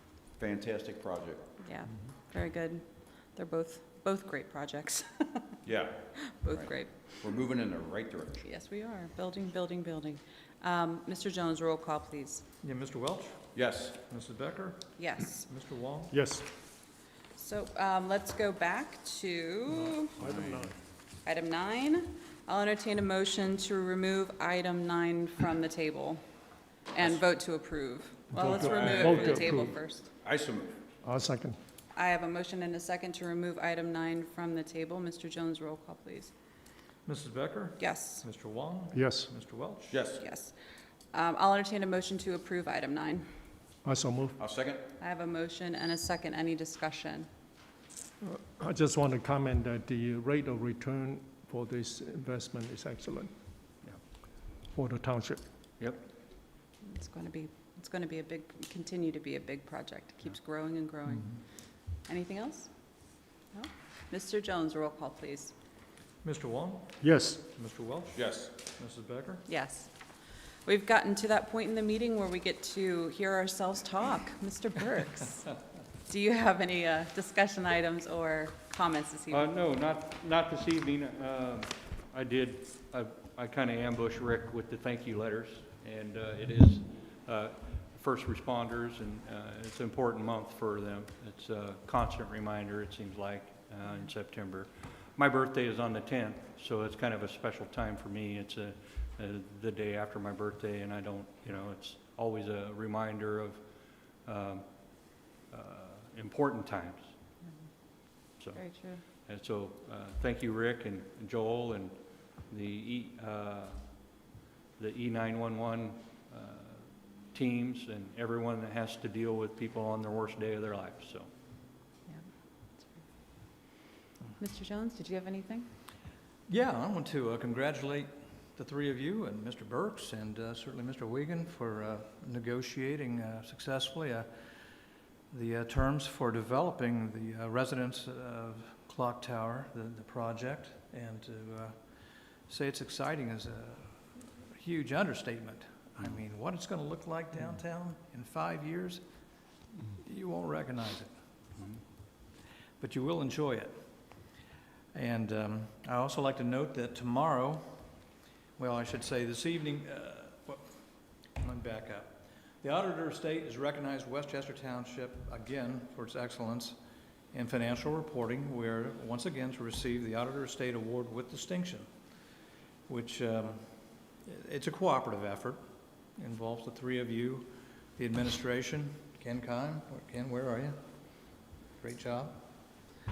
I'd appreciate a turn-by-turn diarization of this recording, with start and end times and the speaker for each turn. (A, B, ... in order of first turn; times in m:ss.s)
0:00.4-0:01.5 A
0:01.6-0:05.5 B
0:05.6-0:08.4 A
0:06.2-0:07.1 B
0:08.4-0:12.4 B
0:12.6-0:16.2 C
0:13.5-0:14.0 A
0:15.0-0:15.4 B
0:16.1-0:16.4 D
0:17.3-0:20.2 B
0:19.8-0:20.8 D
0:21.2-0:26.2 B
0:26.9-0:30.1 B
0:28.3-0:29.7 D
0:28.4-0:29.7 A
0:30.2-0:30.8 A
0:31.0-0:31.6 D
0:31.9-0:36.3 B
0:37.0-0:40.0 C
0:37.8-0:38.2 B
0:38.9-0:39.3 D
0:39.9-0:40.2 A
0:40.2-0:40.5 B
0:41.1-0:43.3 B
0:43.8-0:44.4 D
0:44.4-0:44.8 A
0:45.0-0:47.3 B
0:48.2-0:53.3 D
0:54.7-0:55.4 D
0:56.8-1:01.4 B
1:02.0-1:02.7 B
1:03.5-1:05.5 B
1:06.2-1:09.4 C
1:07.0-1:07.4 D
1:08.1-1:08.5 A
1:09.5-1:09.9 B
1:10.6-1:15.5 B
1:16.1-1:19.5 B
1:19.3-1:43.6 E
1:44.2-1:47.1 E
1:48.4-1:54.1 E
1:48.5-1:49.0 B
1:54.8-2:01.3 E
2:02.1-2:03.0 B
2:04.4-2:05.7 B
2:06.5-2:14.3 C
2:15.3-2:21.8 C
2:22.5-2:29.0 C
2:29.9-2:31.1 C
2:32.8-2:33.7 C
2:34.9-2:37.8 C
2:38.6-2:40.7 C
2:41.4-2:46.8 C
2:47.3-2:51.9 C
2:52.9-2:53.6 C
2:54.2-2:55.6 C
2:56.2-3:00.8 C
3:01.8-3:02.4 C